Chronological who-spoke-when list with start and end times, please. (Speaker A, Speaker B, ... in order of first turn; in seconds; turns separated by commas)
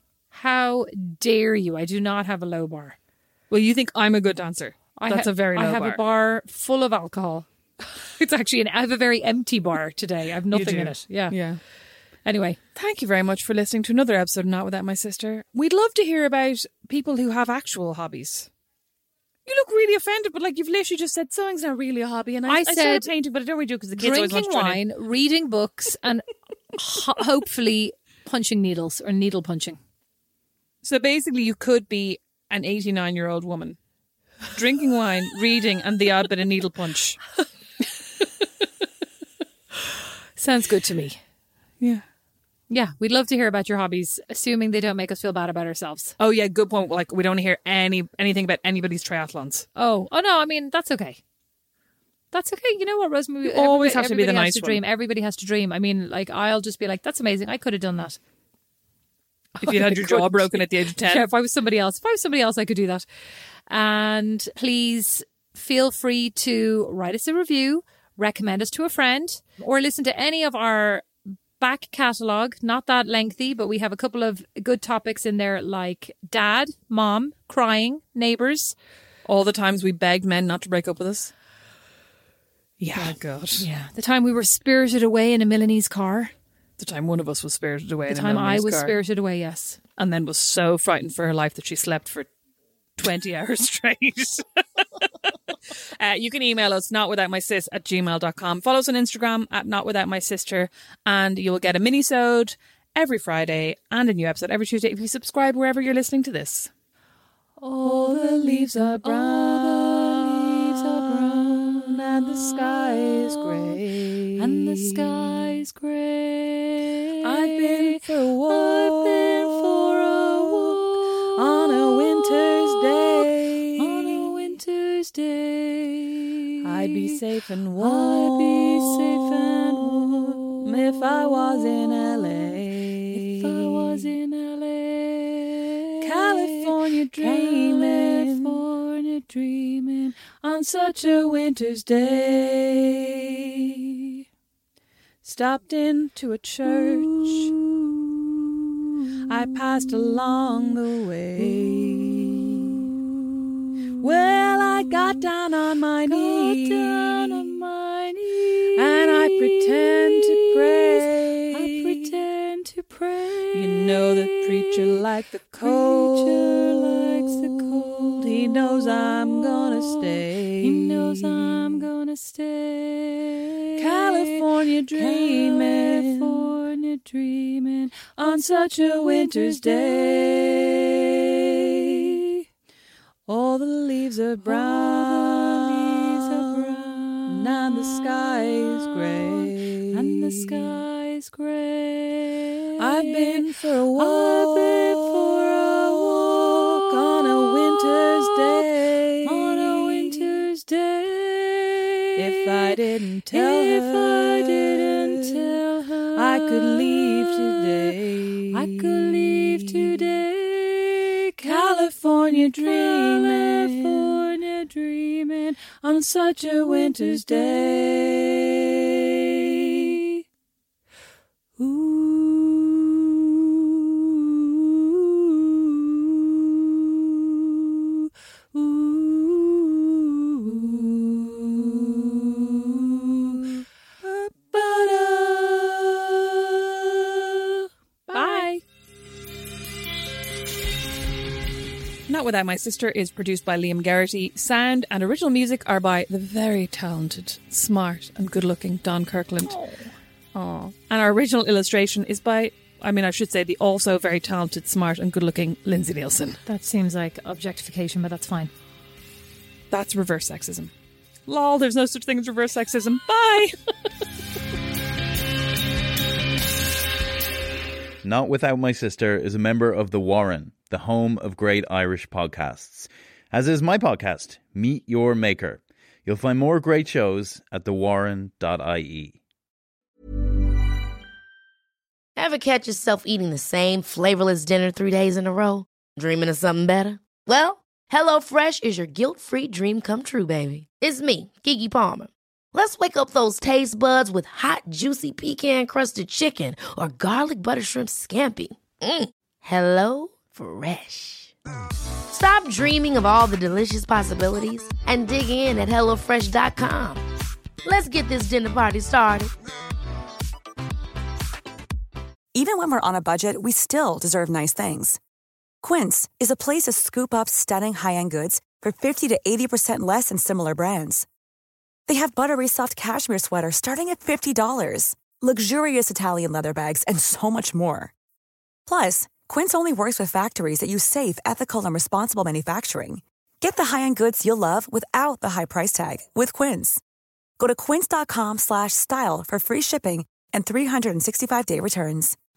Speaker A: 0.3-3.0, Speaker B: 3.5-6.0, Speaker A: 5.0-11.4, Speaker B: 10.5-11.6, Speaker A: 12.2-12.6, Speaker B: 12.8-18.5, Speaker B: 19.5-24.8, Speaker A: 22.5-23.1, Speaker A: 23.9-29.8, Speaker B: 30.8-33.8, Speaker B: 34.5-37.2, Speaker A: 40.4-41.2, Speaker A: 42.7-46.1, Speaker B: 46.2-49.7, Speaker A: 49.8-51.2, Speaker A: 52.3-58.2, Speaker B: 53.5-54.8, Speaker A: 59.6-63.0, Speaker B: 59.6-61.3, Speaker A: 63.7-71.1, Speaker A: 71.6-78.8, Speaker B: 79.2-81.3, Speaker B: 82.8-83.7, Speaker A: 83.0-86.3, Speaker B: 86.8-88.9, Speaker A: 88.1-89.8, Speaker B: 90.0-92.3, Speaker B: 93.0-106.7, Speaker A: 107.6-113.8, Speaker B: 107.8-115.5, Speaker A: 114.4-127.2, Speaker B: 117.2-120.8, Speaker B: 121.3-124.3, Speaker B: 126.6-134.1, Speaker A: 127.8-132.6, Speaker A: 133.1-141.8, Speaker B: 136.0-138.6, Speaker B: 141.6-143.8, Speaker B: 145.2-147.6, Speaker A: 146.7-147.6, Speaker B: 149.3-152.9, Speaker A: 149.8-150.4, Speaker A: 151.4-152.9, Speaker B: 154.0-157.6, Speaker A: 154.2-155.2, Speaker A: 156.1-165.0, Speaker B: 158.8-161.9, Speaker B: 163.5-171.9, Speaker A: 165.6-181.1, Speaker B: 173.8-176.6, Speaker B: 178.1-182.1, Speaker A: 182.0-182.4, Speaker B: 183.3-190.8, Speaker A: 184.4-198.7, Speaker B: 192.8-200.3, Speaker A: 199.2-202.8, Speaker B: 202.2-205.6, Speaker A: 203.3-208.0, Speaker B: 206.2-210.1, Speaker A: 208.5-211.8, Speaker B: 211.4-214.2, Speaker A: 212.7-215.6, Speaker B: 215.8-219.9, Speaker A: 216.3-218.5, Speaker A: 221.6-223.8, Speaker A: 228.6-231.6, Speaker B: 231.7-232.3, Speaker B: 234.1-236.0, Speaker A: 234.6-235.7, Speaker B: 238.1-238.5, Speaker A: 238.1-238.6, Speaker B: 242.1-249.6, Speaker A: 249.4-249.9, Speaker B: 250.3-256.4, Speaker A: 256.5-258.5, Speaker B: 259.7-260.7, Speaker B: 261.3-263.6, Speaker C: 268.0-279.2, Speaker D: 282.2-301.3, Speaker D: 302.1-307.0, Speaker D: 307.6-309.3, Speaker E: 312.4-315.0, Speaker E: 315.6-321.0, Speaker E: 321.9-327.9, Speaker E: 328.7-336.8, Speaker E: 337.4-342.1